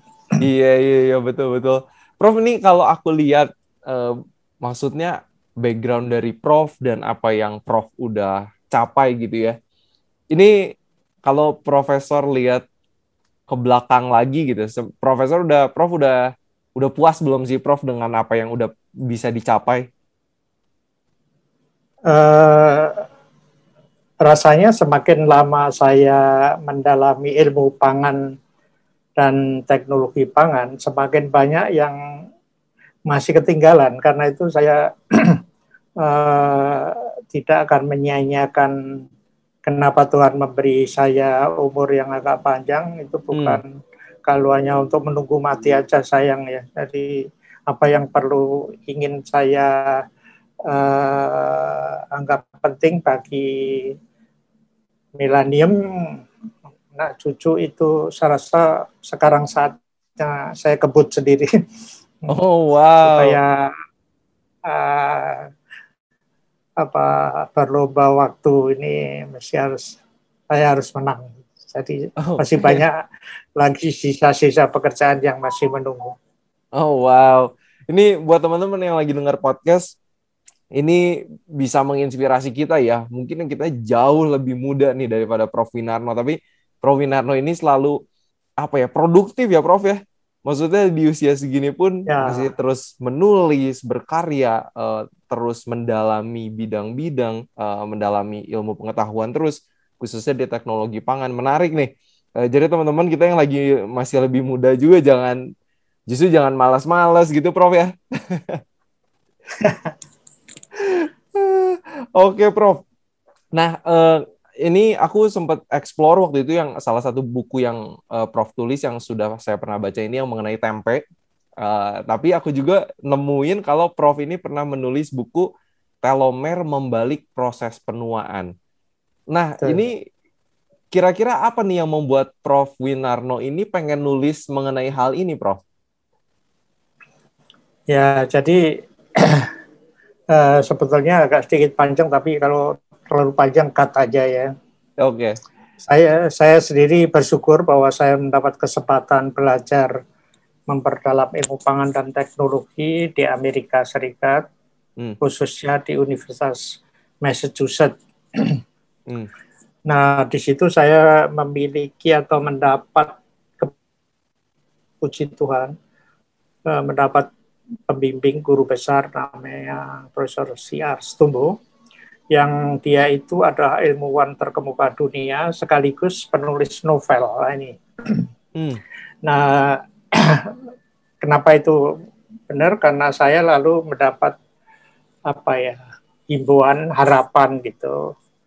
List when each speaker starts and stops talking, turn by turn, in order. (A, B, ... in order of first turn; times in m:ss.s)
0:00.4-0:09.6 A
0:10.3-0:10.7 A
0:11.2-0:12.6 A
0:13.5-0:19.9 A
0:22.1-0:23.0 B
0:24.2-0:28.2 B
0:29.2-0:32.0 B
0:33.1-0:35.4 B
0:36.0-0:38.7 B
0:39.7-0:43.6 B
0:43.3-0:43.6 A
0:44.3-0:47.2 B
0:47.7-0:50.0 B
0:50.7-0:53.9 B
0:55.2-0:56.2 B
0:56.9-1:01.5 B
1:02.3-1:03.4 A
1:03.0-1:03.7 B
1:04.7-1:05.5 B
1:06.8-1:10.0 B
1:10.5-1:13.0 B
1:12.2-1:12.8 A
1:13.6-1:16.2 B
1:16.8-1:20.0 A
1:20.8-1:28.0 A
1:28.6-1:45.4 A
1:32.1-1:32.5 B
1:46.1-1:48.6 A
1:49.6-1:49.9 B
1:50.8-1:52.8 A
1:53.5-2:01.0 A
2:01.6-2:05.5 A
2:06.0-2:08.5 A
2:09.3-2:10.0 A
2:10.9-2:15.6 A
2:17.9-2:18.6 B
2:19.2-2:19.5 B
2:20.3-2:24.5 B
2:25.0-2:25.4 A
2:25.9-2:29.9 B
2:30.7-2:34.4 B
2:35.2-2:38.6 B
2:39.9-2:43.7 B
2:45.0-2:45.7 B
2:46.7-2:47.3 B
2:47.9-2:51.5 B
2:52.3-2:58.2 B
2:59.2-3:00.5 B
3:01.2-3:01.8 B
3:02.5-3:04.4 B
3:05.3-3:05.8 B
3:06.3-3:07.9 B